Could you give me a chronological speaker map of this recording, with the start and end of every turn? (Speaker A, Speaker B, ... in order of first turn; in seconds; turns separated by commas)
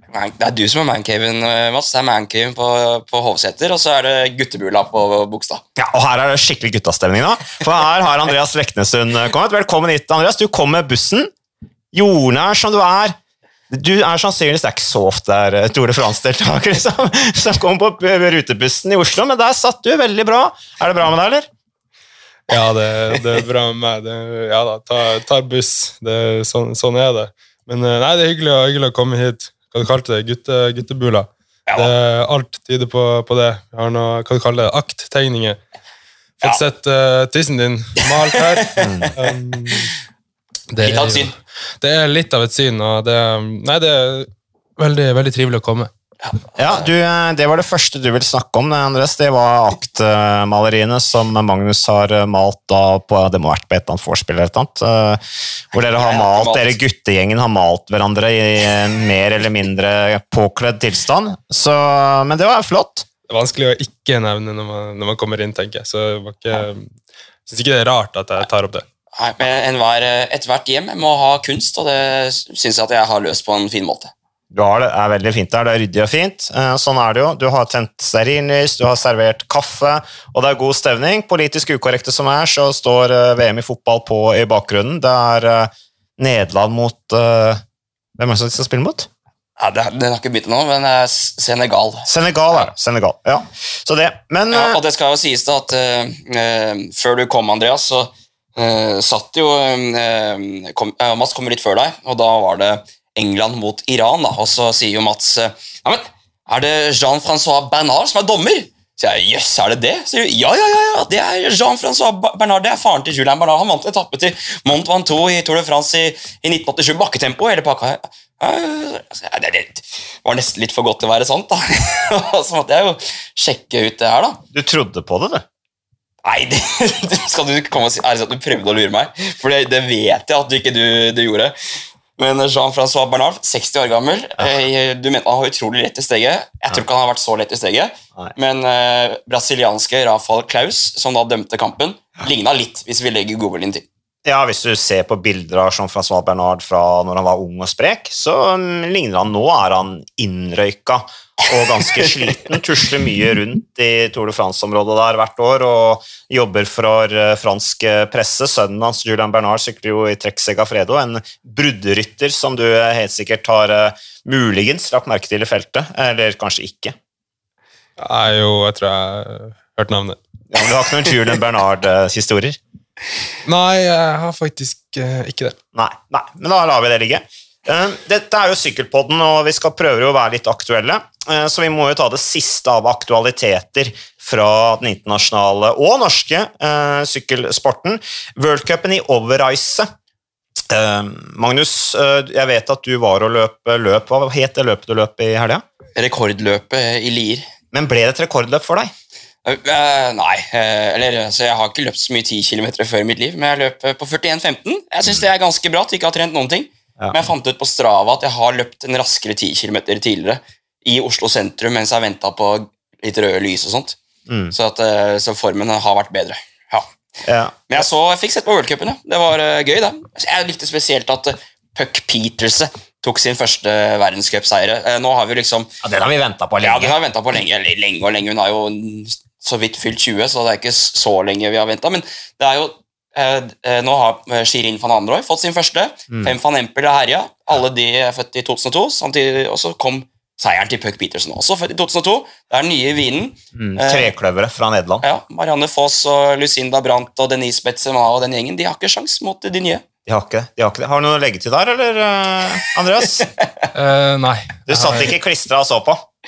Speaker A: 0.1-5.6, Speaker B: 5.8-11.3, Speaker B: 11.9-13.2, Speaker B: 13.7-21.5, Speaker C: 22.5-35.6, Speaker A: 31.7-31.9, Speaker C: 36.4-39.9, Speaker A: 38.3-39.9, Speaker B: 38.8-39.1, Speaker C: 40.7-45.9, Speaker A: 40.8-41.3, Speaker A: 46.2-46.8, Speaker B: 46.6-63.1, Speaker A: 55.8-56.8, Speaker C: 63.3-68.8, Speaker A: 69.1-74.1, Speaker B: 74.5-87.6, Speaker B: 88.2-89.1, Speaker A: 89.6-92.7, Speaker B: 92.0-94.8, Speaker A: 94.5-124.4, Speaker B: 124.5-125.4, Speaker A: 126.2-131.5, Speaker A: 132.2-143.8, Speaker B: 144.2-166.9, Speaker C: 168.0-170.2, Speaker B: 170.5-172.6, Speaker C: 173.4-175.6, Speaker B: 175.7-189.9, Speaker B: 190.7-195.6, Speaker A: 195.9-197.5, Speaker B: 197.7-198.9, Speaker A: 199.4-214.0, Speaker B: 214.3-214.5, Speaker A: 214.5-216.9, Speaker B: 217.2-217.8, Speaker A: 217.7-225.7, Speaker B: 225.8-226.9, Speaker A: 226.6-244.1, Speaker B: 243.6-245.0, Speaker A: 245.0-249.8, Speaker B: 250.1-253.3, Speaker A: 253.2-253.5, Speaker C: 253.7-255.1, Speaker B: 254.7-256.1